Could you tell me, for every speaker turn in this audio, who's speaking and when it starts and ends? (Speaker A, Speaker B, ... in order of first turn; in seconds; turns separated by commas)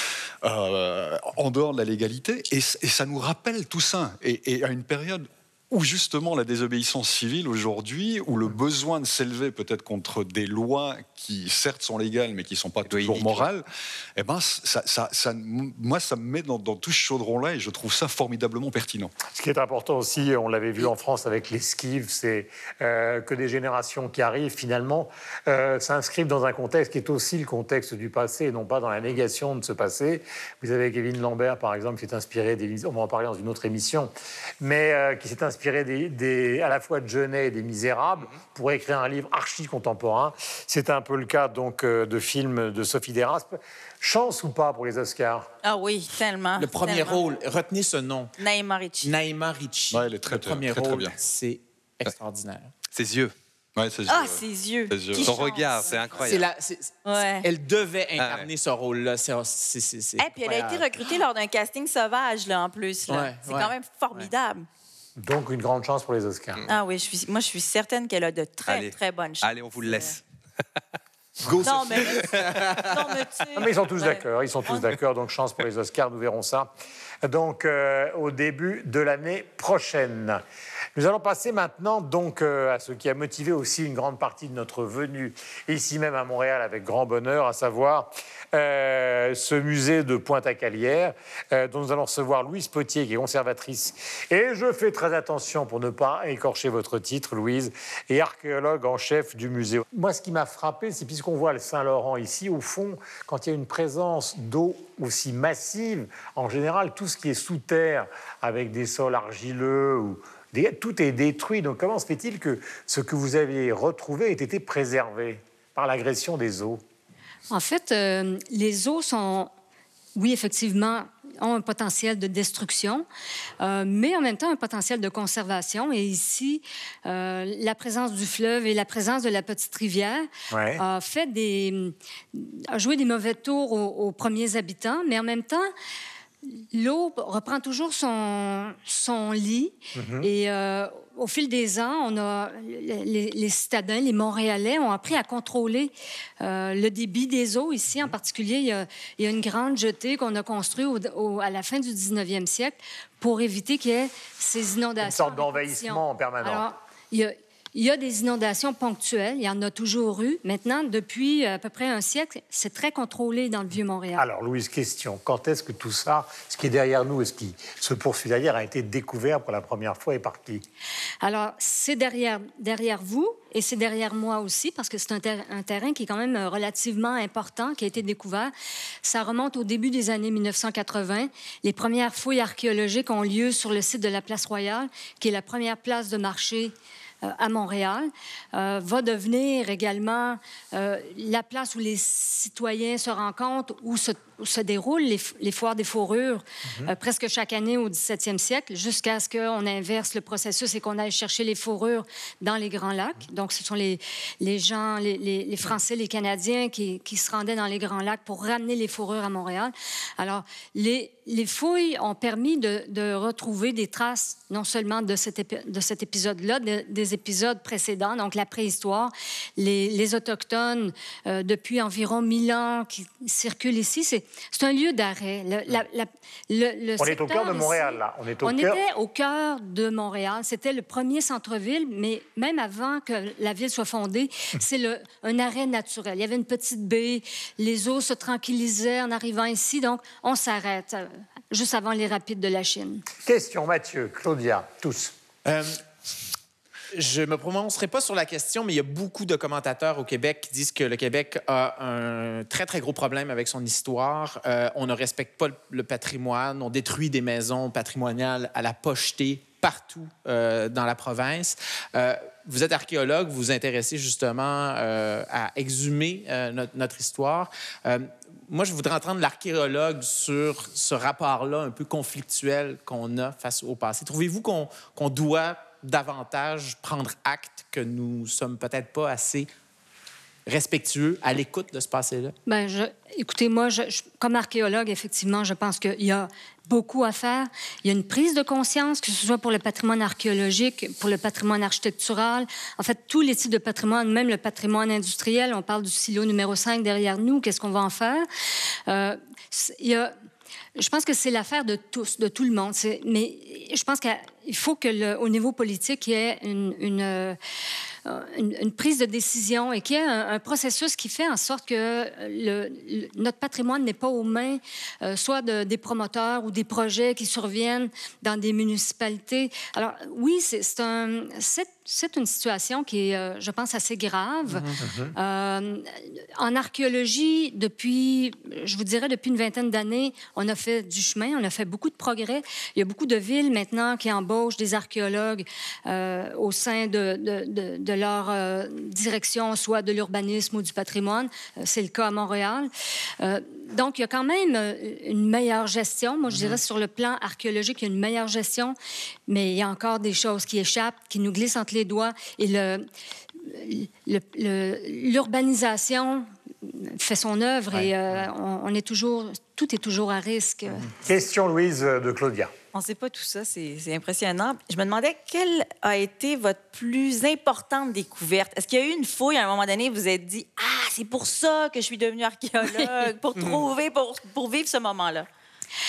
Speaker A: 0.4-19.1, Speaker B: 12.9-13.5, Speaker C: 19.3-45.5, Speaker D: 45.6-47.2, Speaker E: 46.6-48.3, Speaker D: 48.4-49.1, Speaker E: 49.0-52.7, Speaker A: 49.9-51.2, Speaker B: 52.9-53.3, Speaker A: 53.8-55.3, Speaker D: 54.1-56.5, Speaker B: 55.2-56.5, Speaker E: 56.2-60.9, Speaker D: 57.0-57.5, Speaker B: 58.2-58.5, Speaker D: 60.2-64.7, Speaker E: 63.1-64.3, Speaker C: 65.2-66.7, Speaker D: 66.7-70.2, Speaker B: 68.7-70.2, Speaker E: 71.5-73.0, Speaker D: 71.6-75.0, Speaker C: 73.6-76.7, Speaker C: 77.2-80.4, Speaker C: 81.0-116.8, Speaker F: 117.5-119.5, Speaker F: 120.2-123.0, Speaker F: 123.6-135.7, Speaker C: 130.5-130.8, Speaker F: 136.7-164.2, Speaker C: 139.9-140.3, Speaker C: 155.0-156.7, Speaker C: 164.2-170.6, Speaker F: 171.2-178.5, Speaker F: 179.0-186.7, Speaker F: 187.2-243.0, Speaker C: 227.0-228.8, Speaker C: 243.2-245.1, Speaker E: 245.4-245.8, Speaker E: 246.9-279.5, Speaker E: 280.5-282.3, Speaker F: 282.5-298.3, Speaker F: 298.9-300.1, Speaker F: 300.8-307.4, Speaker F: 308.1-342.7, Speaker E: 324.5-324.8, Speaker C: 324.8-325.1, Speaker F: 343.2-348.8, Speaker F: 349.3-352.9, Speaker F: 353.5-356.2, Speaker F: 356.8-360.9, Speaker C: 357.7-358.2, Speaker C: 360.9-362.5, Speaker D: 362.7-375.3